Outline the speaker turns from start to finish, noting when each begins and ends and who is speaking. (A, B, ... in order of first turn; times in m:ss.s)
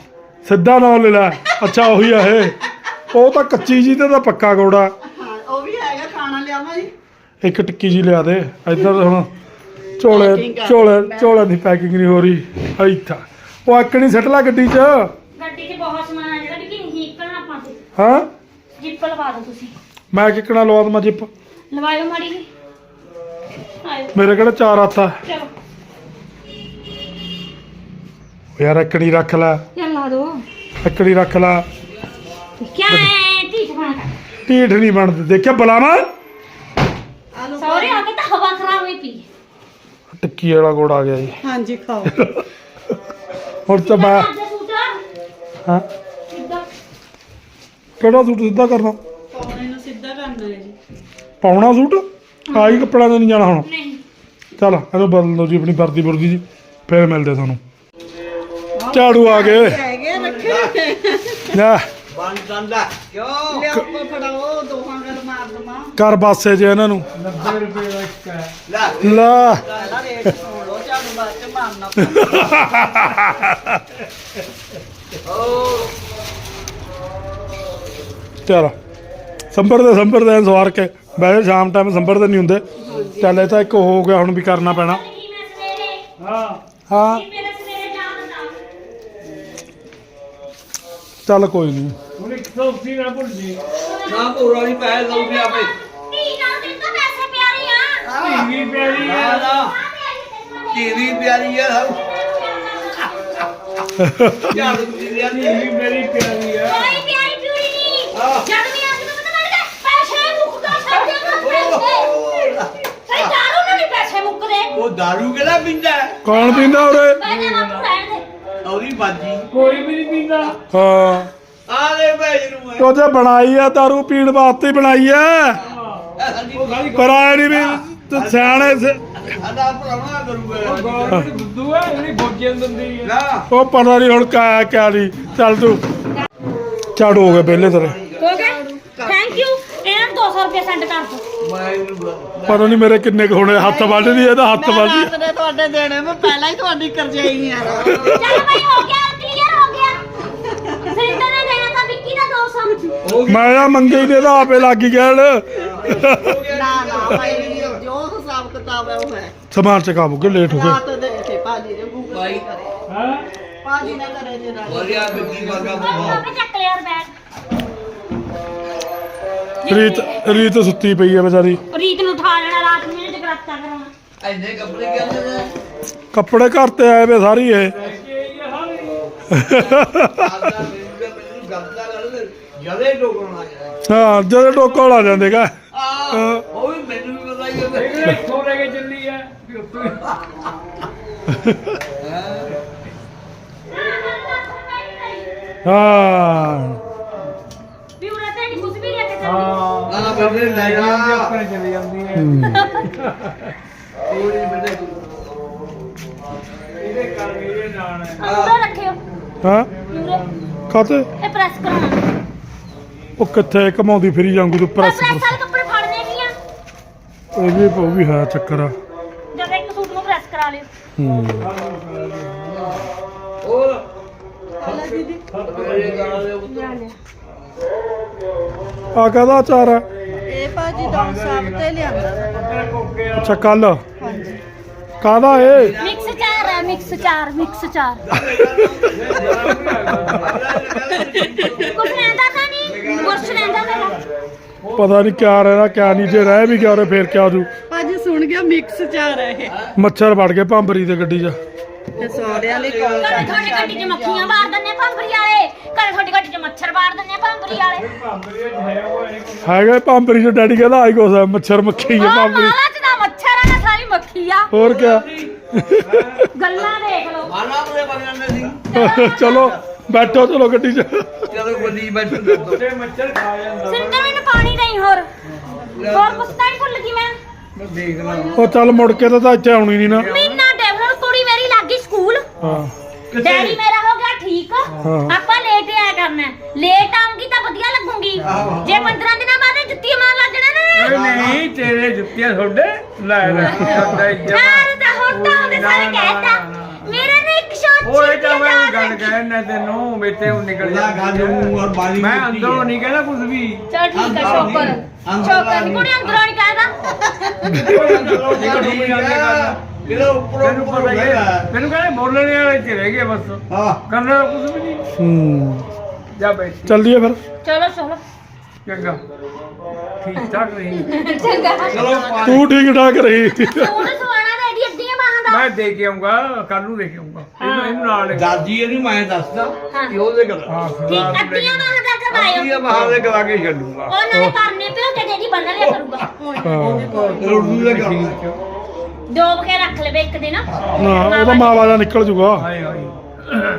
0:00.4-0:02.6 A
0:03.1-0:04.9 A
0:05.0-0:06.9 B
0:07.4-0:09.3 A
0:10.0-0:15.1 A
0:10.1-0:11.4 B
0:15.4-0:17.8 C
0:18.0-0:18.3 A
0:18.8-0:19.8 C
0:20.1-0:21.3 A
0:21.7-0:22.5 C
0:23.8-0:24.1 C
0:24.1-0:25.2 A
0:28.6-0:29.6 A
0:29.7-0:30.4 C
0:30.8-0:31.6 A
0:32.6-0:34.1 C
0:34.5-0:36.1 A
0:37.3-0:38.0 B
0:37.6-0:39.2 C
0:40.2-0:41.4 A
0:41.4-0:42.1 B
0:42.1-0:42.4 A
0:43.6-0:44.3 A
0:43.7-0:45.0 C
0:46.3-0:46.6 C
0:48.0-0:49.0 A
0:49.3-0:50.8 B
0:51.4-0:53.7 A
0:52.5-0:52.8 C
0:53.6-0:54.0 C
0:54.6-0:57.6 A
0:58.8-1:01.5 B
0:58.9-0:59.8 A
1:00.1-1:00.4 D
1:00.4-1:00.8 E
1:01.5-1:01.8 A
1:02.1-1:03.7 E
1:03.5-1:05.9 B
1:06.0-1:07.0 A
1:07.2-1:08.5 D
1:08.6-1:10.0 E
1:09.0-1:09.6 A
1:09.7-1:12.6 B
1:12.0-1:13.8 A
1:15.2-1:15.9 E
1:18.4-1:18.7 A
1:19.5-1:22.6 A
1:22.8-1:23.4 B
1:23.2-1:25.0 A
1:24.7-1:26.0 C
1:26.2-1:26.6 D
1:26.9-1:27.2 A
1:26.9-1:28.5 C
1:31.2-1:32.0 A
1:32.2-1:33.6 D
1:33.7-1:34.3 C
1:34.1-1:35.7 E
1:36.1-1:38.1 C
1:38.0-1:39.7 E
1:38.2-1:39.3 D
1:38.8-1:41.2 C
1:40.7-1:42.0 E
1:41.9-1:43.4 C
1:44.0-1:44.5 A
1:44.5-1:45.6 E
1:44.5-1:47.0 D
1:46.6-1:52.2 C
1:48.1-1:48.5 E
1:51.4-1:53.4 E
1:53.1-1:54.8 C
1:54.7-1:56.2 E
1:56.2-1:57.2 A
1:56.3-1:58.2 C
1:57.2-1:57.9 D
1:58.6-1:59.5 E
1:59.5-2:00.6 D
2:00.7-2:01.3 A
2:01.7-2:02.9 E
2:02.8-2:05.6 A
2:05.6-2:07.6 D
2:06.2-2:06.9 E
2:06.9-2:09.2 A
2:07.6-2:11.2 E
2:10.6-2:13.1 D
2:13.0-2:13.4 E
2:13.5-2:15.8 A
2:17.0-2:18.0 A
2:17.0-2:18.3 E
2:18.2-2:21.2 C
2:18.2-2:19.4 B
2:21.4-2:22.8 E
2:22.5-2:25.1 A
2:23.4-2:28.0 B
2:27.6-2:28.5 E
2:27.9-2:28.5 A
2:27.9-2:30.0 C
2:30.7-2:31.0 B
2:30.8-2:33.1 C
2:33.0-2:34.1 E
2:33.3-2:36.4 A
2:35.6-2:37.8 E
2:36.3-2:39.3 B
2:39.5-2:40.8 A
2:40.4-2:42.7 B
2:42.1-2:42.5 E
2:42.9-2:43.3 D
2:43.6-2:46.2 B
2:44.6-2:46.3 E
2:45.5-2:47.1 C
2:49.6-2:50.5 C
2:49.7-2:51.6 A
2:51.7-2:53.9 C
2:54.2-2:55.5 E
2:56.1-2:57.7 A
2:57.7-2:59.1 D
2:59.3-3:00.6 A
2:59.4-3:03.8 E
3:03.8-3:05.5 A
3:05.7-3:08.2 E
3:06.1-3:06.4 A
3:07.7-3:10.0 D
3:10.0-3:10.5 E
3:11.3-3:11.8 A
3:12.0-3:12.5 E
3:13.7-3:15.3 C
3:15.6-3:16.8 A
3:18.0-3:19.5 C
3:19.2-3:22.4 D
3:19.9-3:21.4 E
3:22.1-3:22.7 A
3:22.4-3:22.8 C
3:23.0-3:23.3 D
3:24.1-3:25.0 E
3:26.8-3:28.2 D
3:28.2-3:29.0 C
3:28.2-3:28.5 E
3:29.4-3:29.7 A
3:29.9-3:30.2 C
3:29.9-3:30.5 D
3:30.7-3:31.1 A
3:31.2-3:32.0 C
3:33.2-3:35.4 A
3:34.8-3:36.3 C
3:37.3-3:38.7 A
3:39.3-3:40.7 C
3:41.0-3:41.5 A
3:41.4-3:42.8 D
3:43.4-3:43.8 E
3:44.6-3:45.2 B
3:44.6-3:46.8 E
3:45.3-3:46.3 D
3:46.5-3:46.9 C
3:48.9-3:49.8 A
3:50.3-3:52.3 B
3:50.7-3:53.5 D
3:53.2-3:53.8 A
3:54.0-3:54.4 B
3:55.0-3:55.8 A
3:55.5-3:57.1 E
3:55.8-3:58.0 C
3:58.0-4:04.0 E
3:58.3-3:58.9 A
3:58.9-4:00.5 D
3:59.9-4:00.2 A
4:00.7-4:01.7 B
4:01.3-4:04.0 C
4:02.9-4:03.2 B
4:04.6-4:05.7 D
4:04.8-4:07.5 A
4:06.3-4:06.6 E
4:07.7-4:09.5 B
4:09.4-4:09.8 E
4:09.8-4:11.4 A
4:11.9-4:13.7 E
4:12.0-4:14.4 B
4:13.0-4:17.9 C
4:17.7-4:19.6 D
4:19.4-4:22.6 A
4:21.8-4:24.5 C
4:24.5-4:26.3 A
4:24.5-4:26.2 D
4:26.3-4:27.3 C
4:26.5-4:29.6 E
4:28.7-4:31.3 A
4:28.8-4:29.1 C
4:31.3-4:32.6 E
4:31.4-4:34.2 D
4:33.6-4:35.1 C
4:35.4-4:36.0 B
4:35.7-4:36.4 E
4:35.8-4:37.2 C
4:37.6-4:38.3 E
4:37.7-4:38.3 D
4:38.0-4:39.0 B
4:38.3-4:40.1 A
4:39.8-4:40.4 D
4:40.0-4:42.2 C
4:42.4-4:42.7 A
4:43.1-4:43.6 E
4:43.2-4:51.0 C
4:44.7-4:44.9 D
4:44.8-4:45.1 A
4:48.2-4:49.0 D
4:48.2-4:48.8 E
4:50.7-4:57.1 D
4:50.8-4:51.4 E
4:53.2-4:53.6 A
4:53.5-4:59.2 C
4:57.8-5:04.8 D
5:00.6-5:02.7 E
5:03.7-5:06.7 C
5:03.9-5:06.2 E
5:07.0-5:07.6 B
5:07.5-5:11.5 E
5:07.6-5:09.6 D
5:10.4-5:14.8 D
5:13.5-5:13.8 E
5:15.0-5:15.7 A
5:16.1-5:16.8 D
5:16.6-5:17.2 A
5:17.4-5:18.0 C
5:18.6-5:19.0 D
5:20.0-5:22.2 D
5:20.8-5:22.2 C
5:21.7-5:22.5 E
5:22.2-5:23.9 A
5:23.4-5:25.5 C
5:25.3-5:28.3 D
5:27.4-5:27.8 C
5:28.1-5:31.0 E
5:29.7-5:30.0 C
5:30.5-5:31.8 D
5:30.9-5:32.7 C
5:32.1-5:33.9 E
5:32.7-5:33.0 D
5:33.9-5:36.1 C
5:36.2-5:37.4 B
5:36.4-5:37.0 A
5:36.6-5:38.4 D
5:37.0-5:38.2 E
5:39.1-5:41.8 C
5:40.8-5:42.5 A
5:42.4-5:43.0 D